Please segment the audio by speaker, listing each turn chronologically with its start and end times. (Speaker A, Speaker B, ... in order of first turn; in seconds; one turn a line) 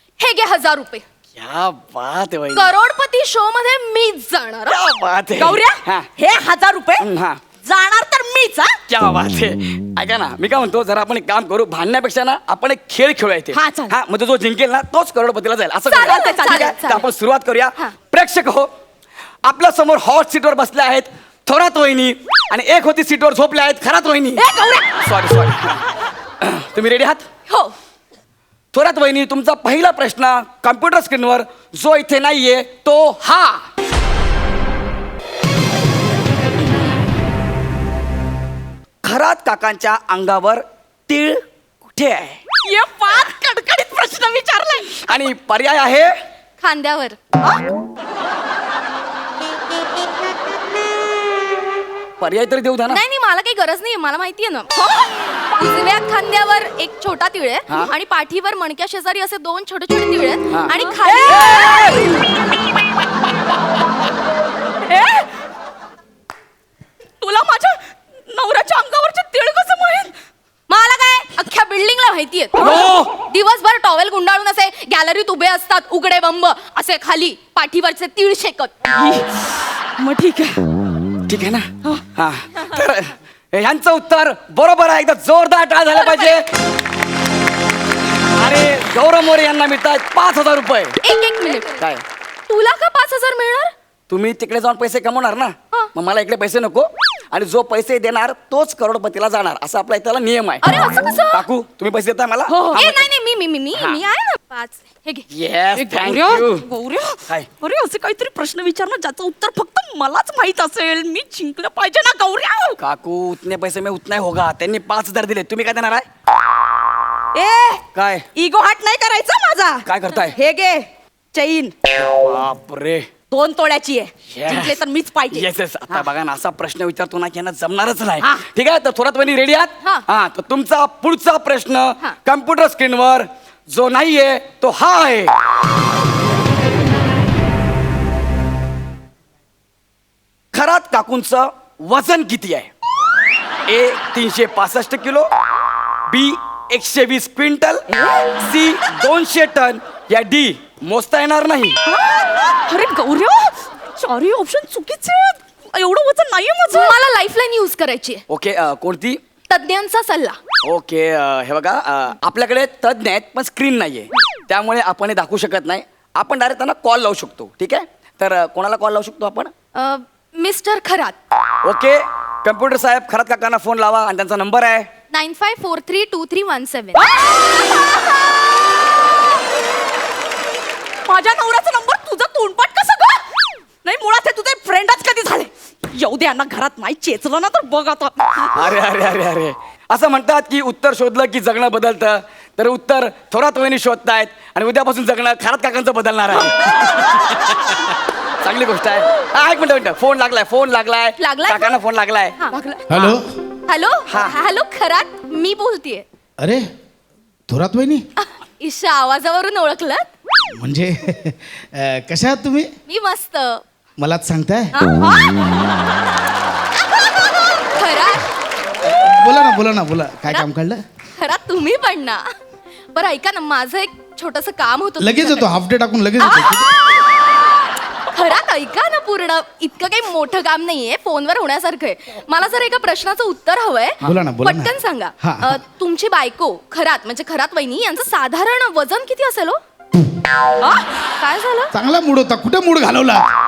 Speaker A: 0.2-1.0
Speaker B: 1.4-2.7
Speaker A: 2.5-4.8
Speaker B: 4.7-6.1
Speaker C: 5.4-7.1
Speaker B: 7.0-7.4
Speaker C: 7.6-8.8
Speaker B: 8.9-18.7
Speaker C: 13.5-13.9
Speaker A: 15.9-17.1
Speaker C: 16.0-16.8
Speaker B: 19.4-24.4
Speaker C: 24.4-25.0
Speaker B: 25.0-25.8
Speaker B: 26.4-27.3
Speaker A: 27.5-27.7
Speaker B: 28.7-33.7
Speaker B: 39.0-42.4
Speaker C: 42.6-45.1
Speaker B: 45.1-46.1
Speaker A: 46.6-47.2
Speaker B: 52.2-53.0
Speaker A: 52.9-54.7
Speaker C: 54.8-55.0
Speaker A: 55.6-61.6
Speaker C: 61.0-62.2
Speaker B: 61.5-61.9
Speaker C: 64.8-65.3
Speaker C: 67.2-70.2
Speaker A: 70.7-78.9
Speaker C: 72.6-72.8
Speaker B: 72.6-73.1
Speaker C: 78.9-80.7
Speaker B: 81.3-86.5
Speaker A: 85.9-86.4
Speaker B: 88.3-91.0
Speaker A: 91.0-91.8
Speaker B: 91.8-92.0
Speaker A: 92.5-93.7
Speaker B: 94.1-100.7
Speaker A: 100.6-101.5
Speaker B: 101.3-103.0
Speaker C: 102.5-102.9
Speaker A: 102.7-105.2
Speaker B: 103.8-104.0
Speaker B: 105.3-106.7
Speaker C: 105.8-112.8
Speaker B: 112.8-116.0
Speaker C: 117.3-121.8
Speaker B: 118.0-118.3
Speaker B: 119.9-120.4
Speaker B: 122.0-123.1
Speaker C: 123.3-126.1
Speaker B: 124.3-135.3
Speaker C: 128.2-128.5
Speaker B: 140.5-142.7
Speaker B: 143.7-145.3
Speaker B: 146.1-147.8
Speaker C: 147.9-148.4
Speaker B: 148.4-151.8
Speaker C: 151.8-157.0
Speaker A: 156.7-158.2
Speaker B: 158.3-159.2
Speaker A: 159.5-160.4
Speaker B: 160.6-169.5
Speaker A: 169.8-171.2
Speaker B: 171.7-174.9
Speaker A: 175.1-177.1
Speaker C: 177.0-177.4
Speaker C: 181.1-183.3
Speaker C: 183.8-188.6
Speaker B: 188.5-197.8
Speaker B: 198.4-202.4
Speaker A: 201.2-201.7
Speaker A: 202.4-203.2
Speaker C: 202.5-203.0
Speaker D: 202.9-203.2
Speaker A: 203.7-206.1
Speaker B: 204.1-204.3
Speaker D: 206.4-206.6
Speaker D: 207.5-208.0
Speaker A: 208.2-210.1
Speaker D: 210.6-212.7
Speaker A: 212.9-213.6
Speaker D: 214.0-214.7
Speaker A: 214.7-215.8
Speaker A: 217.8-218.2
Speaker D: 218.9-220.8
Speaker A: 221.2-222.2
Speaker A: 222.9-225.5
Speaker D: 225.0-226.7
Speaker A: 226.2-226.7
Speaker A: 228.1-239.6
Speaker D: 234.0-235.6
Speaker A: 241.2-241.7
Speaker D: 241.7-243.3